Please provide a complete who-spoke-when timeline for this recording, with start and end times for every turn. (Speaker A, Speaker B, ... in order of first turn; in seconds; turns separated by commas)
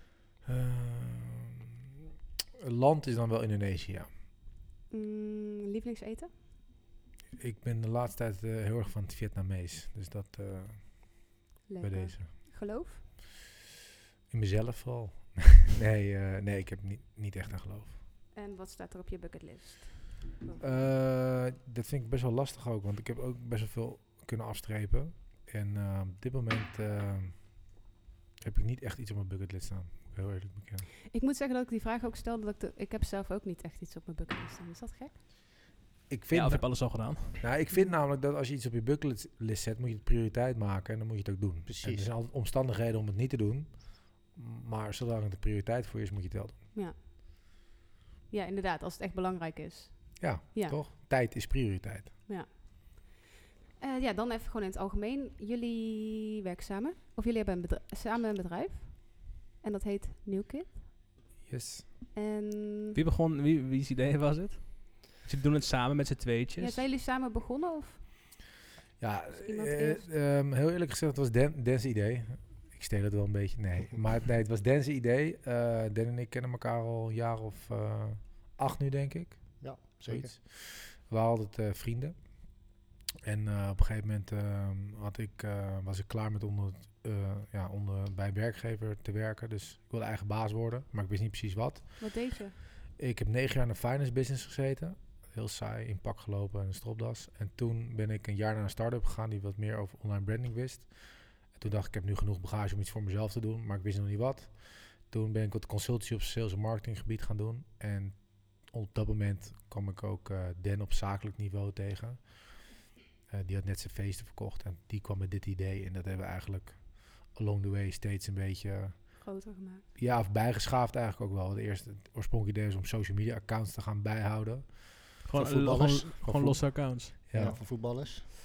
Speaker A: 0.5-1.4, Speaker A: 2.6-4.1, Speaker B: 4.9-6.3, Speaker A: 7.4-12.5, Speaker B: 11.7-13.0, Speaker A: 14.3-18.0, Speaker B: 18.3-20.9, Speaker A: 20.6-27.8, Speaker A: 28.4-30.9, Speaker B: 31.1-35.2, Speaker A: 36.1-46.6, Speaker C: 36.3-37.5, Speaker D: 41.6-42.1, Speaker B: 48.3-50.8, Speaker A: 50.2-52.1, Speaker B: 52.3-53.2, Speaker B: 53.8-60.8, Speaker A: 61.5-61.9, Speaker B: 62.1-63.0, Speaker C: 62.9-66.8, Speaker B: 66.6-68.0, Speaker A: 69.0-92.4, Speaker B: 69.3-70.1, Speaker D: 79.6-80.3, Speaker B: 92.0-92.5, Speaker A: 93.0-112.7, Speaker A: 113.3-119.2, Speaker B: 119.2-119.8, Speaker A: 119.9-127.6, Speaker C: 125.2-127.1, Speaker D: 125.3-126.0, Speaker D: 127.3-128.2